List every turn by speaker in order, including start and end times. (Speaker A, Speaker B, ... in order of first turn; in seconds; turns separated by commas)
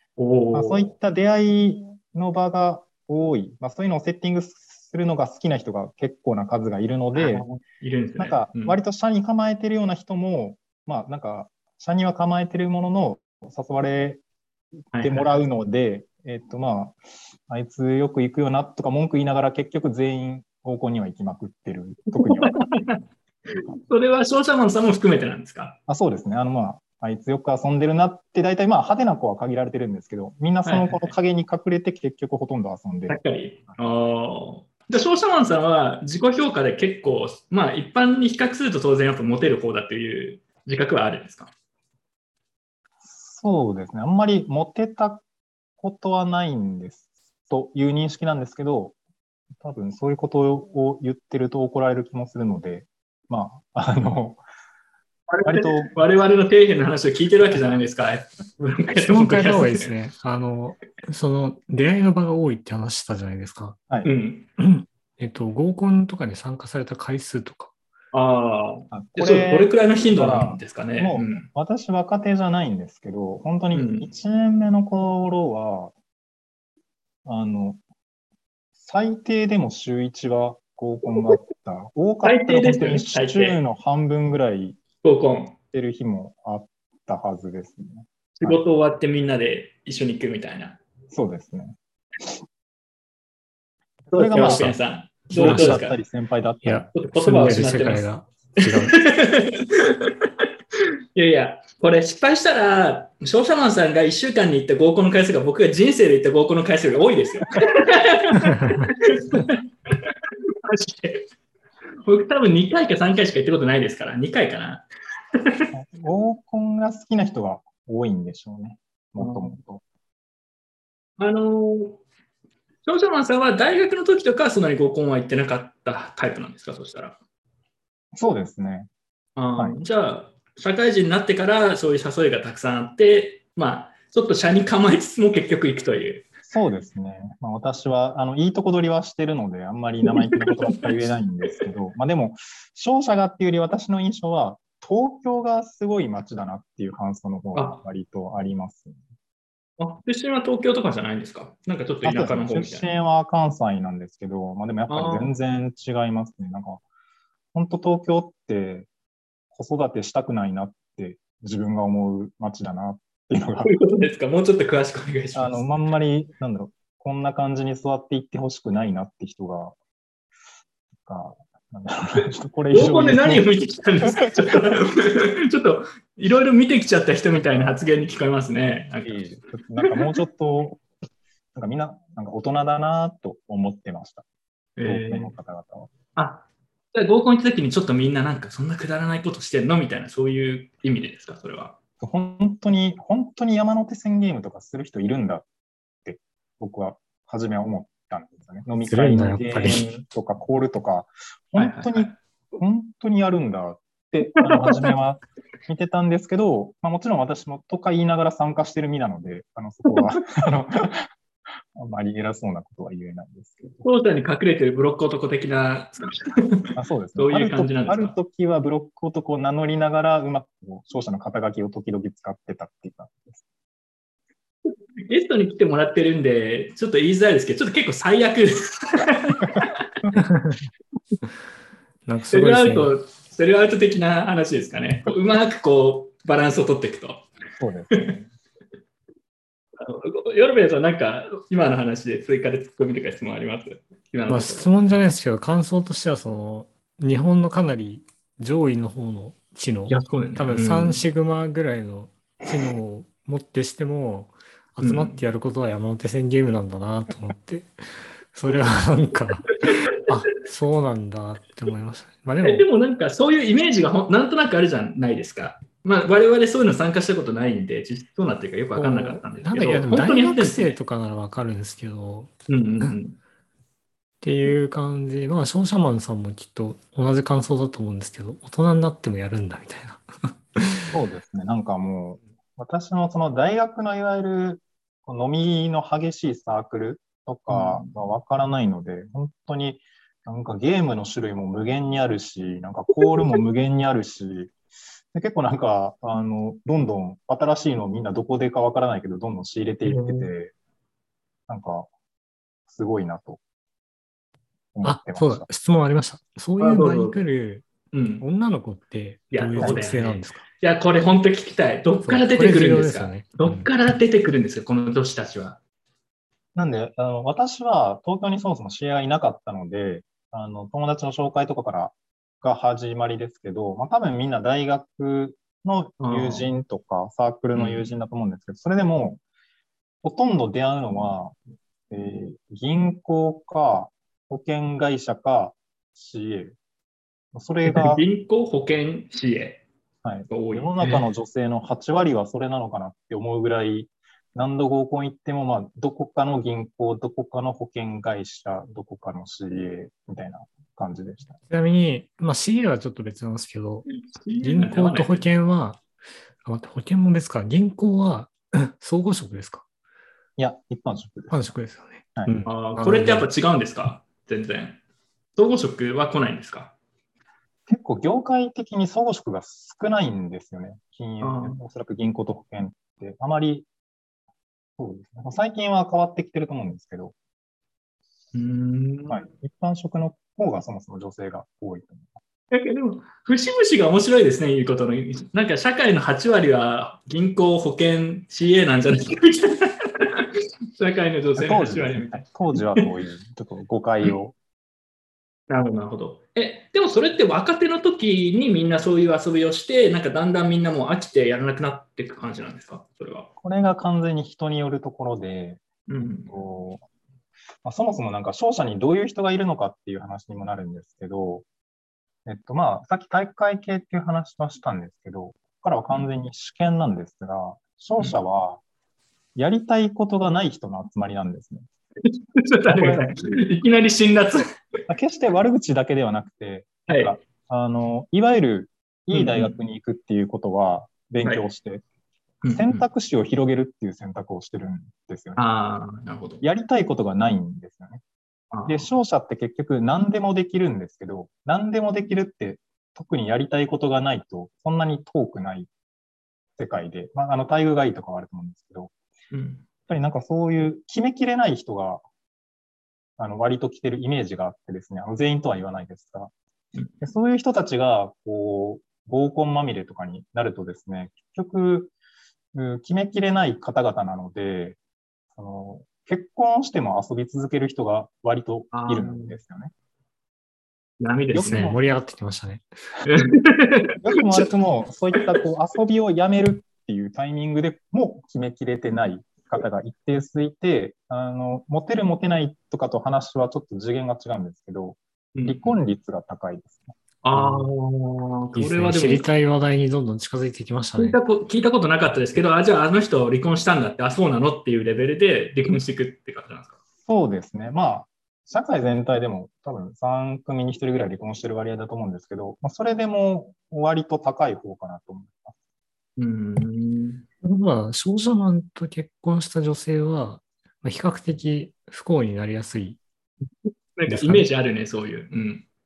Speaker A: 0.2-0.9, Speaker B: 0.5-7.5, Speaker A: 7.1-8.8, Speaker B: 8.2-14.2, Speaker A: 14.9-15.3, Speaker B: 15.0-22.6, Speaker A: 22.2-23.0, Speaker A: 23.9-25.8, Speaker B: 25.9-34.1, Speaker A: 30.6-31.1, Speaker A: 33.1-41.5, Speaker B: 43.0-45.2, Speaker B: 45.8-49.0, Speaker B: 49.6-54.4, Speaker A: 55.3-59.9, Speaker B: 55.4-56.0, Speaker C: 59.0-63.8, Speaker A: 64.0-64.5, Speaker C: 64.6-67.7, Speaker A: 68.1-71.5, Speaker B: 68.9-75.9, Speaker A: 73.7-74.1, Speaker B: 77.2-77.8, Speaker B: 78.8-84.8, Speaker A: 82.2-83.6, Speaker A: 85.0-85.5, Speaker B: 85.7-88.6, Speaker A: 88.4-90.8, Speaker B: 91.1-92.3, Speaker B: 94.1-94.7, Speaker A: 94.1-96.0, Speaker C: 94.3-95.8, Speaker B: 95.3-96.9, Speaker C: 96.6-99.0, Speaker A: 96.9-98.1, Speaker A: 98.6-100.3, Speaker A: 101.1-111.2, Speaker A: 112.0-115.7, Speaker B: 115.7-119.8, Speaker A: 119.2-119.5, Speaker A: 121.2-122.0, Speaker A: 122.8-127.2, Speaker B: 128.1-128.9, Speaker A: 129.3-136.2, Speaker B: 136.5-149.0, Speaker A: 147.5-147.8, Speaker A: 149.8-152.8, Speaker B: 152.0-156.8, Speaker A: 154.9-155.3, Speaker B: 157.5-158.9, Speaker B: 159.5-163.7, Speaker A: 163.6-165.6, Speaker B: 165.3-169.8, Speaker B: 171.0-173.5, Speaker A: 172.7-179.3, Speaker B: 179.0-180.8, Speaker B: 181.5-184.2, Speaker A: 184.8-185.3, Speaker B: 184.8-185.9, Speaker A: 186.2-191.8, Speaker B: 192.0-195.5, Speaker B: 196.0-211.1, Speaker C: 198.8-199.9, Speaker A: 199.7-199.9, Speaker A: 201.6-202.2, Speaker A: 204.4-204.9, Speaker B: 211.7-213.8, Speaker A: 213.8-218.2, Speaker B: 216.7-223.4, Speaker A: 225.1-229.7, Speaker C: 230.3-230.6, Speaker C: 232.1-232.9, Speaker A: 232.3-237.3, Speaker B: 237.6-238.3, Speaker A: 239.8-244.7, Speaker C: 244.3-257.7, Speaker A: 249.9-251.0, Speaker A: 254.8-255.2, Speaker C: 258.3-262.6, Speaker A: 262.4-270.8, Speaker C: 268.8-272.9, Speaker A: 272.5-273.2, Speaker C: 274.2-280.0, Speaker C: 280.6-280.9, Speaker B: 280.9-294.5, Speaker A: 287.5-287.9, Speaker B: 295.1-300.5, Speaker A: 299.8-300.3, Speaker B: 301.5-301.9, Speaker B: 302.7-303.4, Speaker B: 304.7-305.5, Speaker C: 304.8-307.6, Speaker A: 306.6-307.2, Speaker A: 307.9-308.2, Speaker C: 308.2-310.4, Speaker A: 309.3-315.6, Speaker B: 309.6-309.8, Speaker C: 312.0-313.7, Speaker B: 316.5-329.2, Speaker A: 326.0-326.5, Speaker A: 327.5-327.9, Speaker B: 330.0-331.4, Speaker B: 331.9-336.6, Speaker B: 337.3-338.0, Speaker A: 337.6-339.6, Speaker B: 340.0-351.4, Speaker A: 340.3-341.1, Speaker C: 351.5-355.8, Speaker A: 354.1-355.3, Speaker C: 356.4-359.6, Speaker B: 360.4-361.4, Speaker C: 361.3-363.3, Speaker A: 362.4-364.8, Speaker A: 365.4-366.7, Speaker B: 367.7-373.7, Speaker A: 371.2-371.6, Speaker B: 374.8-377.1, Speaker A: 378.3-379.2, Speaker B: 379.1-382.1, Speaker A: 382.5-392.9, Speaker B: 391.4-394.4, Speaker A: 395.5-403.3, Speaker B: 403.4-405.6, Speaker A: 405.9-406.3, Speaker B: 406.2-406.8, Speaker B: 407.6-411.4, Speaker B: 412.2-418.6, Speaker B: 419.3-421.6, Speaker A: 422.1-424.5, Speaker B: 422.7-423.1, Speaker B: 424.9-431.8, Speaker A: 426.9-427.1, Speaker A: 429.1-429.5, Speaker A: 432.4-432.9, Speaker B: 432.5-435.4, Speaker A: 435.4-436.4, Speaker B: 436.4-438.0, Speaker A: 438.5-438.9, Speaker B: 438.6-445.7, Speaker B: 446.6-448.9, Speaker A: 449.3-449.6, Speaker B: 449.9-452.0, Speaker B: 453.2-456.3, Speaker B: 457.0-461.9, Speaker B: 462.5-464.8, Speaker B: 465.3-469.7, Speaker A: 468.7-469.4, Speaker A: 471.0-471.8, Speaker B: 471.3-471.8, Speaker C: 471.3-472.6, Speaker A: 473.0-473.9, Speaker B: 474.0-486.9, Speaker A: 485.3-485.8, Speaker A: 487.2-489.3, Speaker C: 487.3-487.7, Speaker C: 488.5-491.2, Speaker A: 491.0-496.8, Speaker B: 497.1-505.5, Speaker A: 506.2-507.2, Speaker C: 507.4-513.0, Speaker A: 514.0-515.6, Speaker C: 514.1-514.4